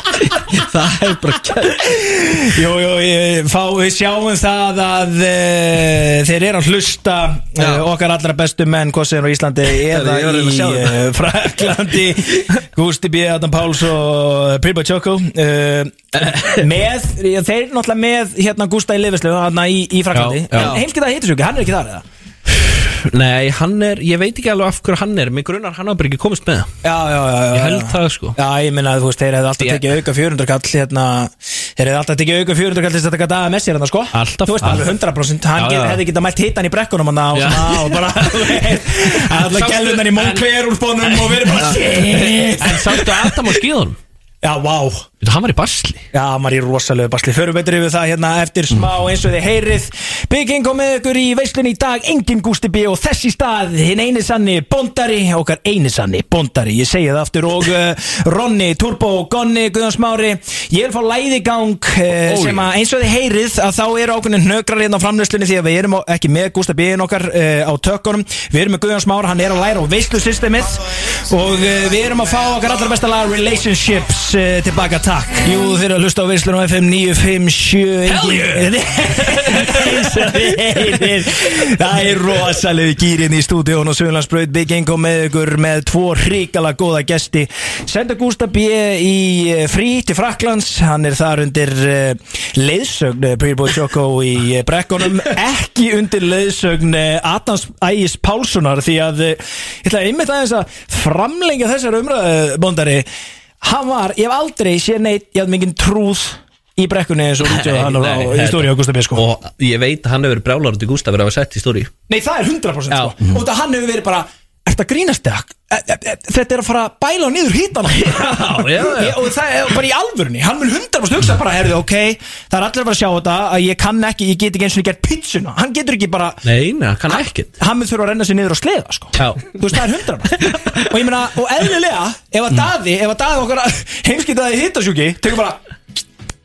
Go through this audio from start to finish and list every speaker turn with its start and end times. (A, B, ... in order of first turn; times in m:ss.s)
0:00.5-0:01.8 A
0:01.8-0:22.0 B
0:07.6-0:07.8 A
0:09.8-0:11.0 A
0:16.1-0:16.7 A
0:20.1-0:20.8 C
0:20.5-0:20.8 A
0:22.5-0:26.7 C
0:26.8-0:43.4 B
0:27.5-0:28.4 C
0:34.1-0:34.9 C
0:35.6-0:36.0 C
0:37.3-0:40.5 C
0:41.0-0:44.0 C
0:44.4-0:45.0 B
0:45.2-0:46.0 C
0:46.1-1:43.1 B
1:02.1-1:02.7 A
1:18.0-1:21.2 C
1:43.6-1:49.2 B
1:47.4-1:51.9 C
1:52.1-2:06.4 B
1:57.9-1:59.3 C
2:06.4-2:07.5 C
2:07.1-2:15.6 B
2:09.2-2:09.4 C